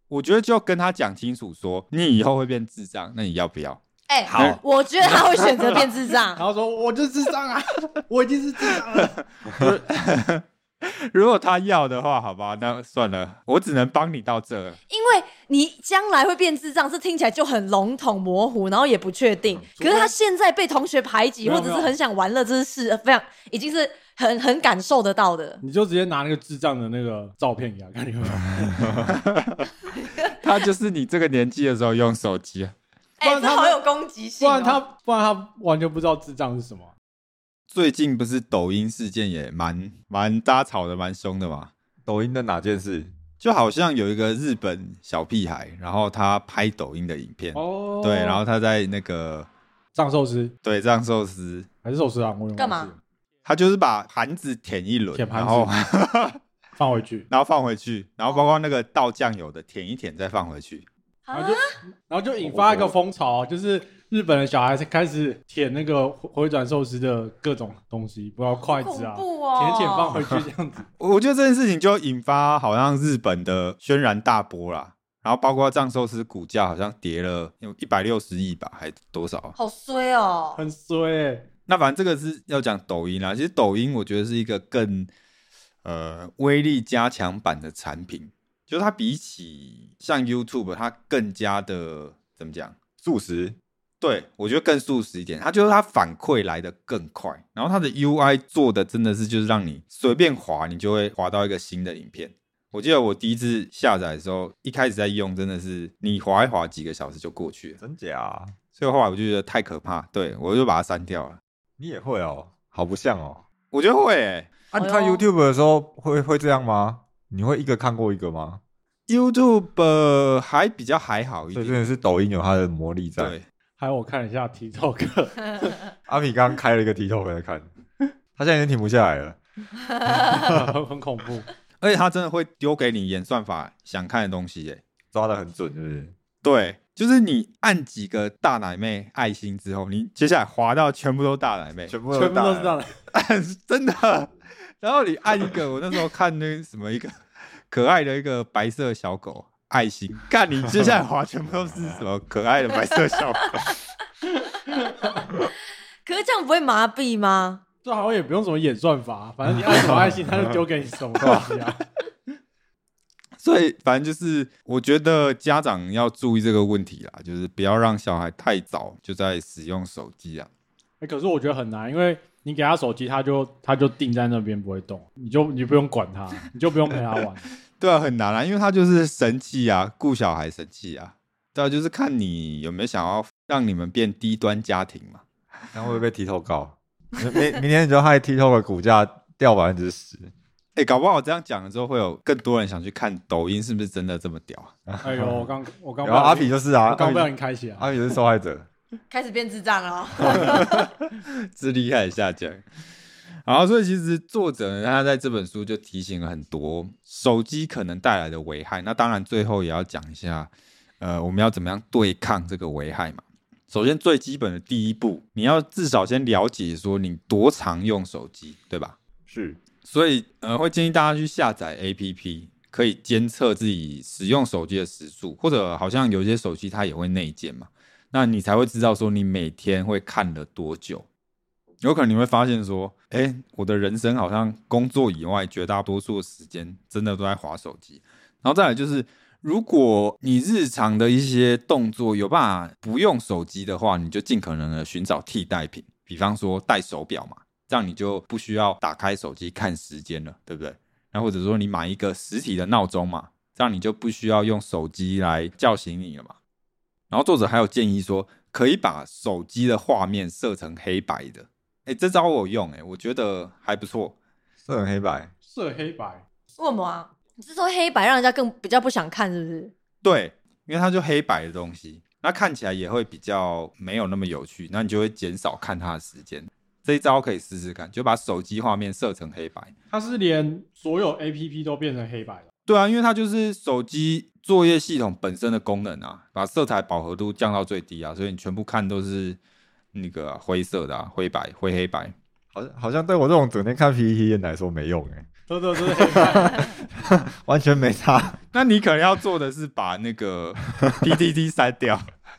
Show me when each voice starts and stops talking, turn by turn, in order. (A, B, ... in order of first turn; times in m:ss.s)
0:00.1-0:05.8 A
0:04.1-0:06.4 B
0:06.4-0:09.2 C
0:09.5-0:14.8 A
0:14.9-0:25.6 B
0:19.8-0:20.1 C
0:21.4-0:21.9 C
0:25.6-0:29.1 C
0:29.1-0:29.7 A
0:30.2-0:32.7 A
0:33.2-0:34.8 B
0:33.2-0:33.8 C
0:34.4-0:36.9 C
0:37.7-0:41.7 A
0:42.1-0:43.1 D
0:43.4-0:49.5 A
0:47.5-0:48.4 C
0:50.0-0:50.6 C
0:50.6-0:51.7 A
0:51.8-0:53.0 C
0:52.6-0:52.9 B
0:53.4-0:56.4 A
0:55.1-0:55.8 C
0:56.8-0:57.3 C
0:57.3-1:00.8 A
1:01.3-1:01.7 B
1:01.3-1:10.8 C
1:02.4-1:02.9 D
1:08.6-1:10.3 B
1:11.0-1:19.6 A
1:19.6-1:20.6 B
1:20.6-1:21.5 C
1:21.7-1:25.1 A
1:25.8-1:32.8 A
1:33.0-1:33.6 D
1:34.0-1:47.8 A
1:47.8-1:48.5 D
1:48.8-1:51.4 A
1:51.8-1:53.4 D
1:53.7-1:54.5 A
1:54.7-1:58.6 D
1:54.8-1:55.2 B
1:59.1-2:01.8 A
2:01.5-2:03.4 D
2:03.2-2:03.4 A
2:03.8-2:05.8 C
2:06.1-2:07.7 D
2:08.4-2:09.4 D
2:10.0-2:10.7 D
2:10.2-2:11.5 C
2:11.8-2:14.8 A
2:15.1-2:16.2 D
2:16.4-2:21.9 A
2:21.9-2:22.8 D
2:22.1-2:22.9 C
2:23.1-2:27.2 A
2:27.7-2:33.7 A
2:34.7-2:35.5 B
2:36.1-2:37.6 B
2:37.8-2:41.8 C
2:39.7-2:40.5 D
2:41.2-2:41.6 D
2:43.4-2:50.5 A
2:51.0-2:57.5 C
2:57.8-3:05.2 A
3:05.7-3:10.3 D
3:10.8-3:14.7 A
3:14.9-3:15.5 D
3:15.0-3:17.9 C
3:16.0-3:18.7 D
3:19.1-3:20.9 B
3:21.1-3:22.6 A
3:23.4-3:39.0 A
3:39.3-3:39.6 D
3:39.8-3:51.1 A
3:51.8-4:16.4 A
4:17.1-4:24.2 A
4:24.6-4:25.3 D
4:25.4-4:26.2 C
4:26.6-4:29.7 B
4:30.0-4:39.7 A
4:39.9-4:42.5 C
4:42.7-4:49.4 A
4:49.9-4:52.2 A
4:52.5-4:58.4 D
4:55.5-4:56.8 C
4:58.5-5:02.1 A